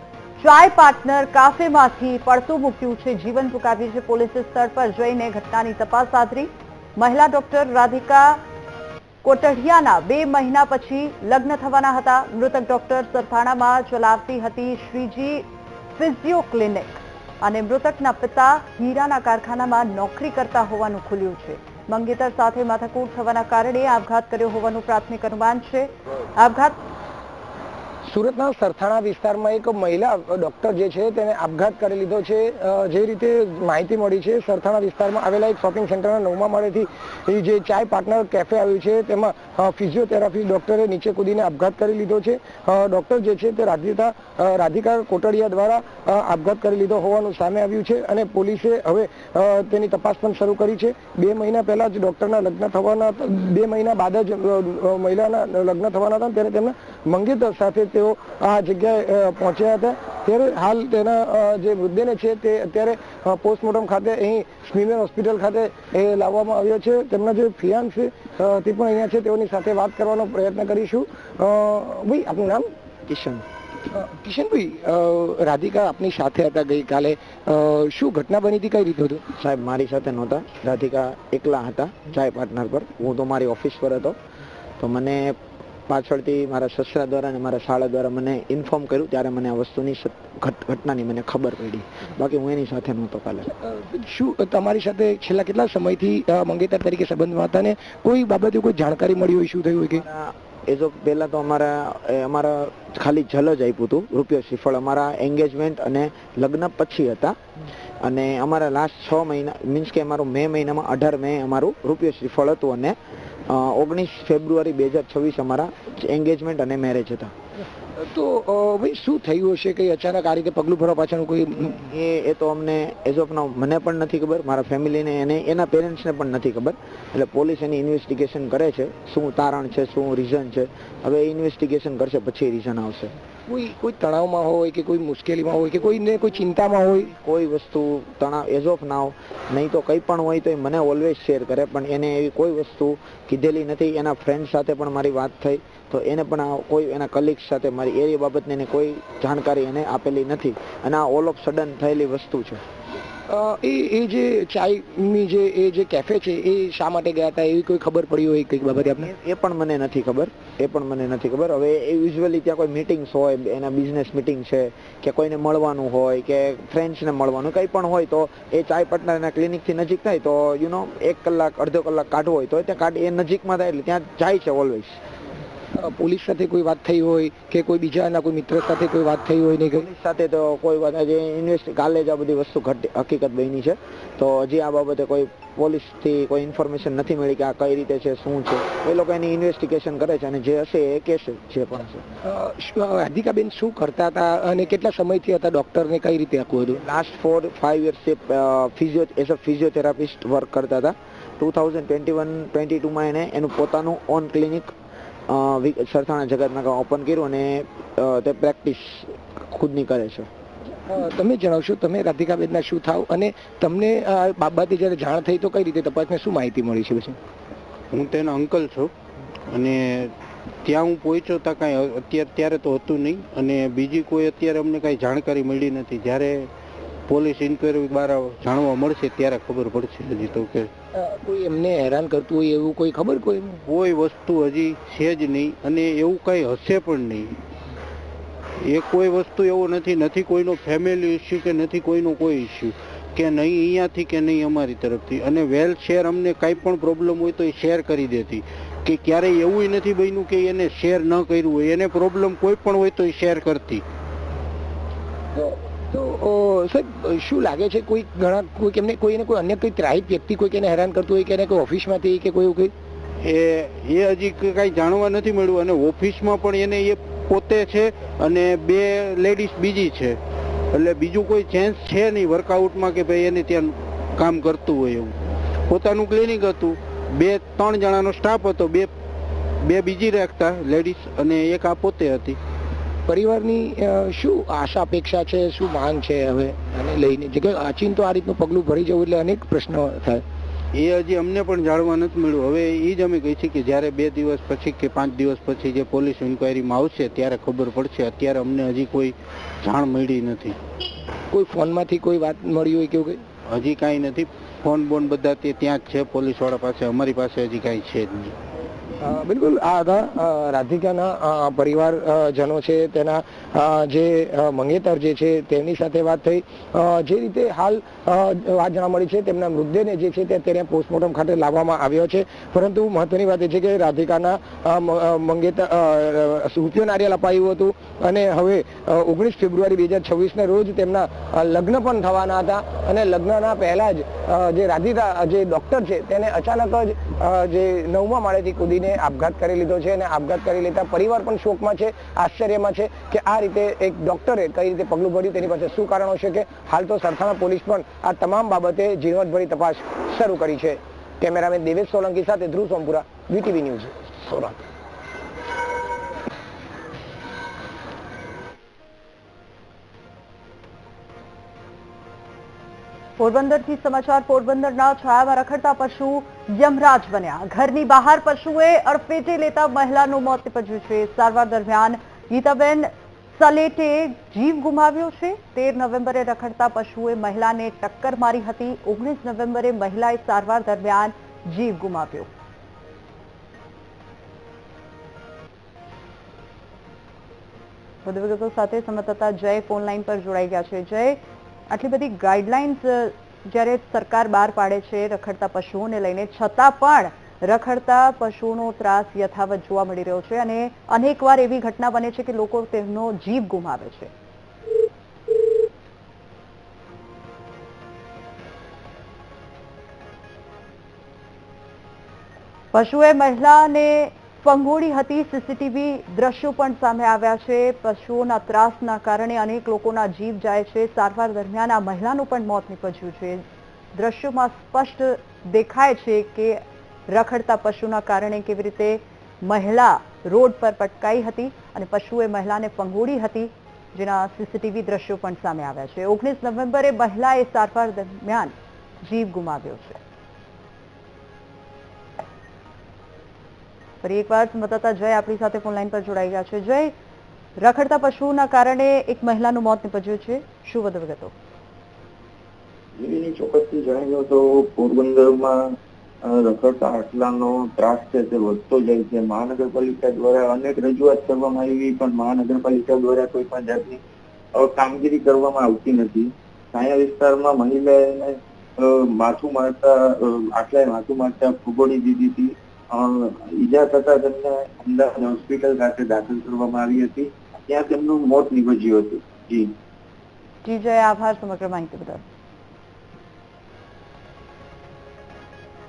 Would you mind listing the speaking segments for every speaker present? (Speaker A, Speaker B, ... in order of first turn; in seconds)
Speaker A: 0.4-8.4, 9.2-26.8, 363.2-382.3, 388.0-404.1, 412.7-440.0, 444.0-446.9, 447.6-451.3, 480.6-482.2
Speaker B: 28.0-72.7, 73.9-79.2, 93.5-100.0, 118.0-121.8, 133.5-137.1, 153.3-159.1, 175.8-179.8, 192.2-196.8, 210.9-217.2, 230.9-233.6, 255.3-262.7, 283.1-290.2, 301.3-303.2, 309.0-354.7
Speaker C: 73.1-73.4, 79.4-84.2, 84.8-93.5, 100.0-107.4, 108.0-113.0, 113.5-117.3, 121.8-133.1, 137.2-152.6, 159.0-175.0, 179.7-192.0, 196.8-204.7, 205.3-210.3
Speaker D: 217.9-218.9, 219.5-226.5, 227.1-230.7, 233.7-237.4, 238.6-253.8, 263.2-270.2, 270.7-275.2, 275.7-278.9, 279.6-282.4, 290.7-300.6, 303.5-308.4
Speaker E: 453.0-464.0, 464.5-479.7